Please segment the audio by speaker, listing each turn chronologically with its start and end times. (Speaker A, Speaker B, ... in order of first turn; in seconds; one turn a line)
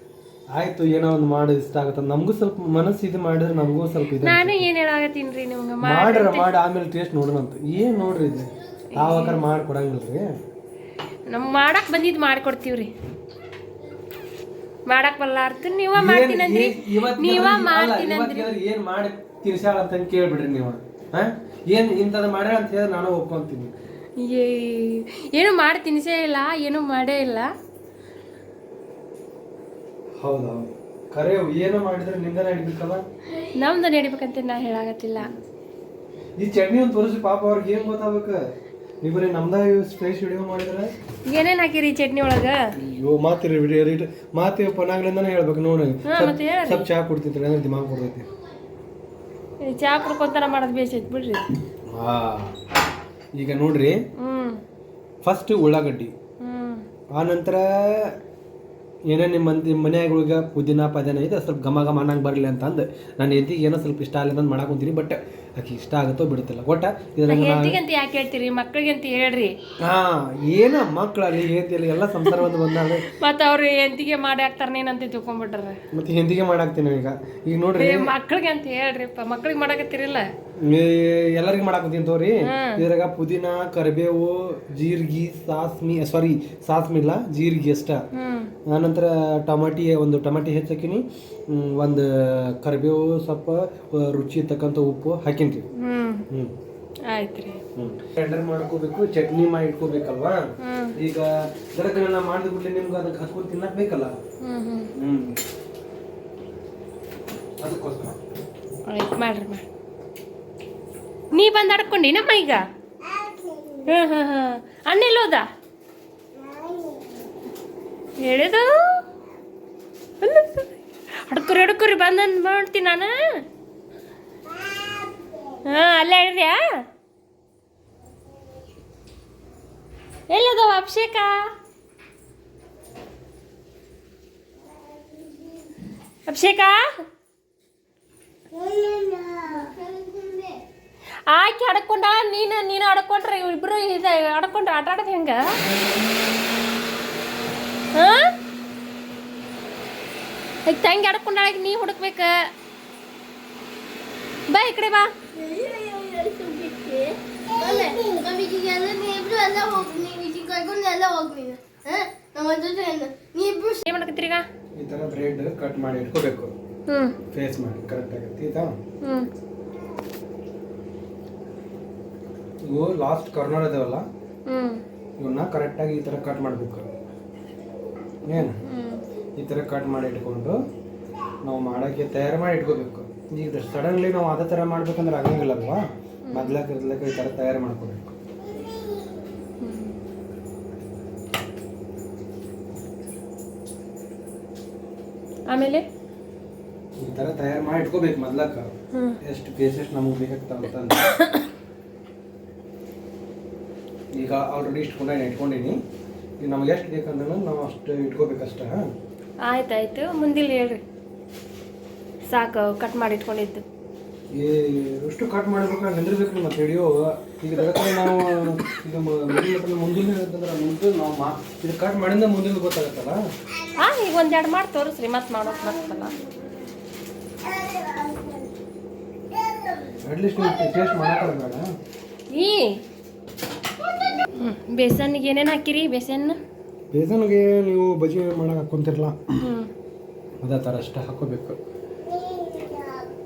Speaker A: 0.6-4.7
Speaker B: 4.2-6.5
Speaker A: 5.8-10.3
Speaker B: 8.9-9.4
Speaker B: 11.3-12.9
Speaker B: 14.9-18.5
Speaker A: 15.9-23.7
Speaker B: 24.2-27.5
Speaker A: 30.2-33.0
Speaker B: 33.4-35.3
Speaker A: 36.4-38.4
Speaker A: 39.0-40.9
Speaker B: 41.3-42.6
Speaker A: 42.8-48.3
Speaker B: 46.1-46.9
Speaker B: 49.6-51.5
Speaker A: 51.9-52.6
Speaker A: 53.4-54.0
Speaker B: 54.2-54.6
Speaker A: 55.2-56.1
Speaker B: 56.4-56.8
Speaker A: 57.1-58.2
Speaker A: 59.1-67.8
Speaker B: 67.3-69.5
Speaker A: 69.8-73.1
Speaker B: 72.3-75.8
Speaker A: 75.9-78.1
Speaker B: 77.8-80.2
Speaker A: 80.6-88.0
Speaker B: 82.4-82.8
Speaker B: 88.1-88.5
Speaker A: 88.7-95.7
Speaker B: 95.8-96.3
Speaker A: 96.3-96.5
Speaker B: 97.1-97.6
Speaker A: 97.8-104.1
Speaker B: 100.6-101.0
Speaker B: 104.4-104.9
Speaker A: 105.0-105.4
Speaker A: 107.6-108.2
Speaker B: 108.9-109.7
Speaker B: 111.3-112.6
Speaker B: 113.8-115.5
Speaker B: 118.2-119.0
Speaker B: 120.2-120.7
Speaker B: 121.3-123.1
Speaker B: 125.7-126.6
Speaker B: 130.3-131.4
Speaker B: 136.3-136.8
Speaker C: 138.5-140.6
Speaker B: 141.3-145.6
Speaker B: 147.9-148.3
Speaker B: 150.7-152.4
Speaker B: 154.5-155.1
Speaker C: 155.3-163.8
Speaker B: 163.8-164.4
Speaker A: 164.8-166.5
Speaker B: 166.9-167.2
Speaker A: 167.3-168.7
Speaker B: 169.0-169.3
Speaker A: 172.6-174.1
Speaker B: 174.5-174.8
Speaker A: 175.2-176.9
Speaker A: 178.2-178.6
Speaker B: 178.3-179.0
Speaker A: 179.4-180.6
Speaker A: 181.4-188.2
Speaker B: 186.3-186.6
Speaker B: 189.6-190.0
Speaker B: 195.5-195.8
Speaker A: 197.0-201.1
Speaker B: 198.9-199.2
Speaker B: 201.1-201.5
Speaker A: 204.1-205.8
Speaker A: 206.4-208.8
Speaker B: 209.4-210.8
Speaker B: 212.3-213.6
Speaker A: 214.4-223.2
Speaker B: 223.8-226.2
Speaker A: 230.0-231.7
Speaker B: 232.3-232.8
Speaker B: 234.3-236.4
Speaker A: 236.9-239.2
Speaker B: 239.4-239.7
Speaker A: 240.4-241.6